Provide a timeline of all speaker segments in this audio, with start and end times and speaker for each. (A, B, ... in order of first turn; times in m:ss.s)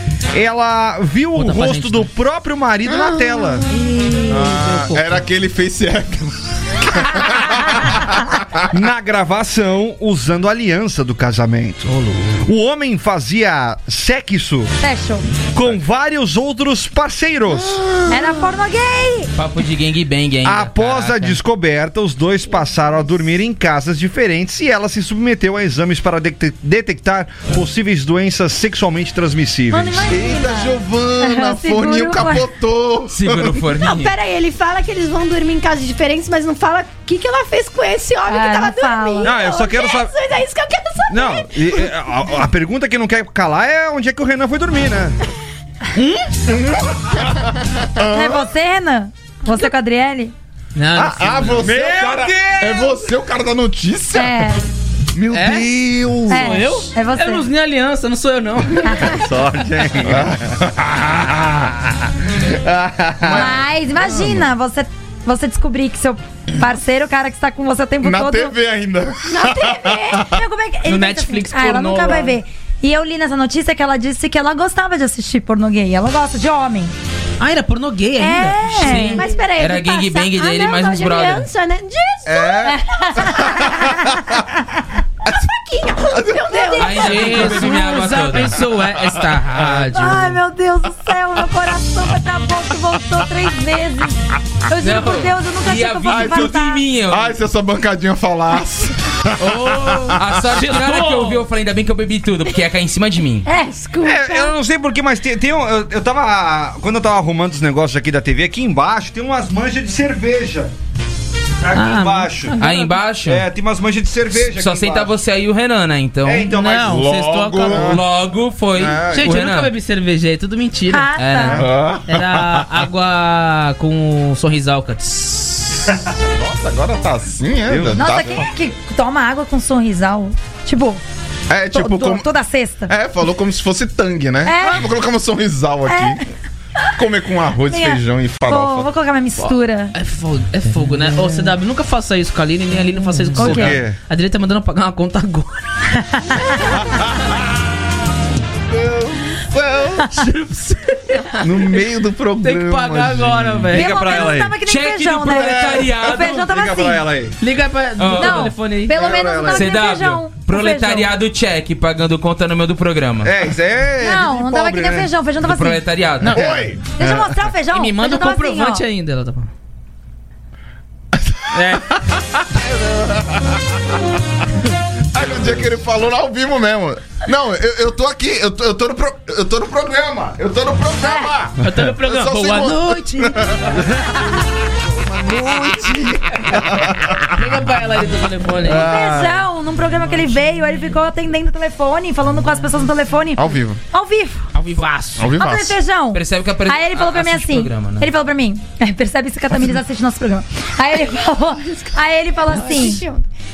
0:00.3-0:03.7 A
0:01.3-0:02.1 B
0:03.6-0:05.2 B
0:04.3-0:08.7 C
0:08.7-0:14.7 A
0:11.9-0:12.4 B
0:14.8-0:15.2 D
0:15.5-0:17.8 A
0:17.5-0:18.4 C
0:18.1-0:19.3 D
0:19.4-0:21.4 E
0:20.4-0:30.0 A
0:29.7-0:32.4 D
0:30.0-0:33.6 C
0:33.1-0:34.1 E
0:33.8-0:41.6 F
0:38.3-0:39.3 D
0:39.2-0:40.1 A
0:41.1-0:45.2 A
0:46.0-0:46.3 B
0:46.5-0:48.5 C
0:48.0-0:50.3 D
0:50.7-0:51.7 B
0:50.9-0:54.6 C
0:51.6-0:53.0 A
0:54.1-0:54.6 D
0:55.1-0:56.6 C
0:55.3-0:55.7 B
0:56.3-0:59.2 B
0:56.3-0:57.4 D
0:58.8-0:59.1 D
0:59.1-1:01.8 A
1:00.0-1:00.7 C
1:02.4-1:03.5 A
1:03.2-1:04.5 C
1:03.3-1:08.5 D
1:08.0-1:10.4 C
1:09.3-1:10.3 F
1:10.3-1:16.9 D
1:10.8-1:12.4 B
1:17.4-1:19.3 B
1:18.2-1:19.2 D
1:18.8-1:21.5 E
1:19.1-1:22.7 F
1:22.3-1:23.9 C
1:22.6-1:23.9 D
1:25.3-1:27.6 F
1:26.1-1:26.7 C
1:26.6-1:26.9 D
1:26.8-1:28.6 E
1:26.9-1:30.4 B
1:29.5-1:29.9 C
1:29.9-1:36.8 D
1:34.8-1:37.3 E
1:36.1-1:40.6 C
1:39.4-1:41.4 B
1:40.1-1:43.4 E
1:43.4-1:44.5 D
1:44.0-1:50.7 A
1:51.6-1:52.5 A
1:51.7-1:53.0 B
1:52.6-1:53.4 E
1:53.2-1:55.1 A
1:54.3-1:56.5 E
1:56.2-1:57.1 A
1:56.5-1:57.9 B
1:56.7-1:58.0 C
1:57.7-1:58.0 A
1:57.7-1:59.7 E
1:58.8-1:59.3 C
1:59.1-2:01.1 B
2:00.9-2:01.6 D
2:01.2-2:01.7 E
2:01.6-2:02.7 C
2:02.0-2:05.8 B
2:06.0-2:08.5 C
2:07.7-2:08.5 A
2:07.9-2:11.0 D
2:11.5-2:12.3 C
2:11.7-2:12.9 D
2:12.9-2:16.2 C
2:14.4-2:14.9 D
2:15.9-2:16.2 D
2:16.9-2:18.9 C
2:17.7-2:19.9 D
2:19.4-2:25.6 B
2:23.4-2:23.8 D
2:23.4-2:24.0 A
2:25.9-2:26.7 D
2:28.6-2:30.3 C
2:30.1-2:31.4 B
2:31.4-2:33.7 C
2:32.4-2:33.9 B
2:33.7-2:34.5 A
2:33.7-2:37.0 D
2:34.6-2:36.4 E
2:35.4-2:35.9 C
2:36.0-2:37.4 A
2:37.4-2:39.0 B
2:38.0-2:38.4 E
2:38.2-2:41.1 D
2:38.9-2:39.7 A
2:39.5-2:43.3 E
2:43.2-2:45.1 A
2:44.0-2:45.8 D
2:45.4-2:46.4 E
2:46.2-2:46.5 B
2:46.2-2:46.9 C
2:46.3-2:47.4 A
2:47.0-2:48.8 D
2:47.7-2:49.5 B
2:51.2-2:51.6 C
2:51.5-2:51.9 B
2:52.5-2:53.8 C
2:55.1-3:03.8 C
3:01.6-3:03.5 B
3:03.8-3:04.0 A
3:04.7-3:07.4 C
3:07.3-3:08.9 B
3:08.6-3:09.4 A
3:08.7-3:14.5 D
3:13.4-3:13.8 C
3:14.5-3:15.3 B
3:15.2-3:15.8 C
3:15.2-3:23.0 D
3:16.1-3:18.1 E
3:22.4-3:23.2 F